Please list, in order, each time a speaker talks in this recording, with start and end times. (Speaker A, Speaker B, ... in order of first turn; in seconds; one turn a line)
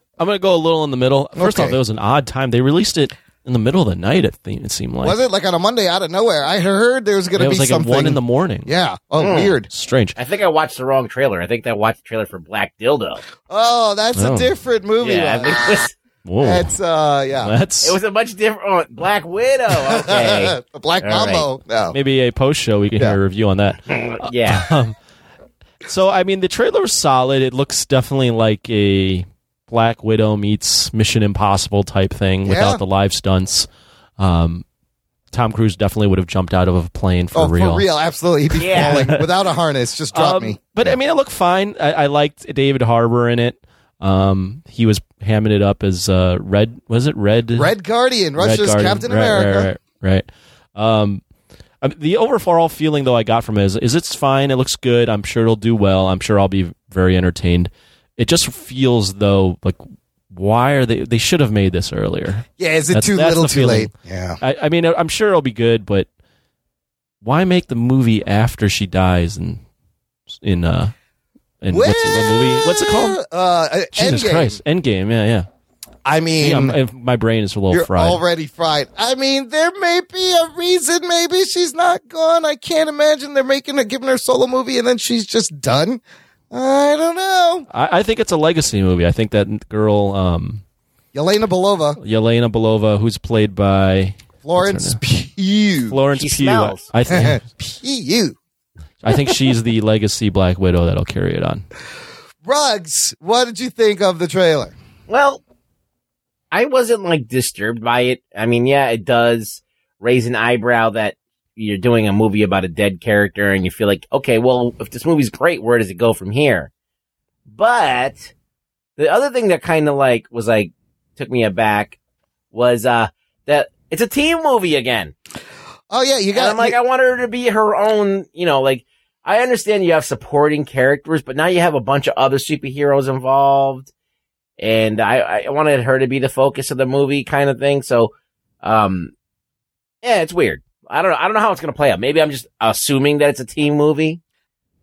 Speaker A: 0.2-5.2
Speaker B: 1.4-1.8
Speaker B: 5.0-9.7
Speaker A: 7.4-8.7
Speaker C: 9.2-9.5
Speaker A: 9.7-10.2
Speaker C: 10.2-13.2
Speaker B: 13.5-15.6
Speaker A: 14.2-14.5
Speaker C: 15.0-15.9
Speaker A: 16.2-16.7
Speaker B: 16.4-17.6
Speaker A: 17.4-18.0
Speaker C: 17.8-21.5
Speaker B: 19.8-22.0
Speaker A: 21.9-24.9
Speaker C: 23.9-24.7
Speaker A: 25.9-33.7
Speaker B: 32.5-32.8
Speaker A: 34.2-34.6
Speaker A: 35.3-37.9
Speaker B: 37.3-41.0
Speaker C: 38.6-39.1
Speaker A: 38.6-39.1
Speaker A: 40.1-47.7
Speaker B: 47.5-49.7
Speaker A: 48.4-51.2
Speaker A: 51.8-66.1
Speaker B: 62.6-64.4
Speaker A: 67.2-69.6
Speaker A: 70.3-70.9
Speaker A: 71.6-73.2
Speaker B: 71.7-74.6
Speaker A: 73.9-75.5
Speaker B: 76.0-76.8
Speaker A: 76.4-78.2
Speaker B: 77.7-86.0
Speaker B: 86.5-87.7
Speaker A: 87.7-90.6
Speaker B: 91.1-92.0
Speaker A: 92.0-95.0
Speaker B: 94.4-96.0
Speaker A: 95.9-97.4
Speaker C: 96.2-96.9
Speaker B: 97.1-98.4
Speaker A: 99.0-101.7
Speaker B: 102.5-104.7
Speaker C: 105.1-105.4
Speaker C: 106.5-116.7
Speaker C: 117.5-118.3
Speaker C: 119.0-122.0
Speaker C: 122.5-125.1
Speaker B: 125.9-126.8
Speaker C: 126.3-133.9
Speaker C: 134.6-139.1
Speaker C: 140.0-144.2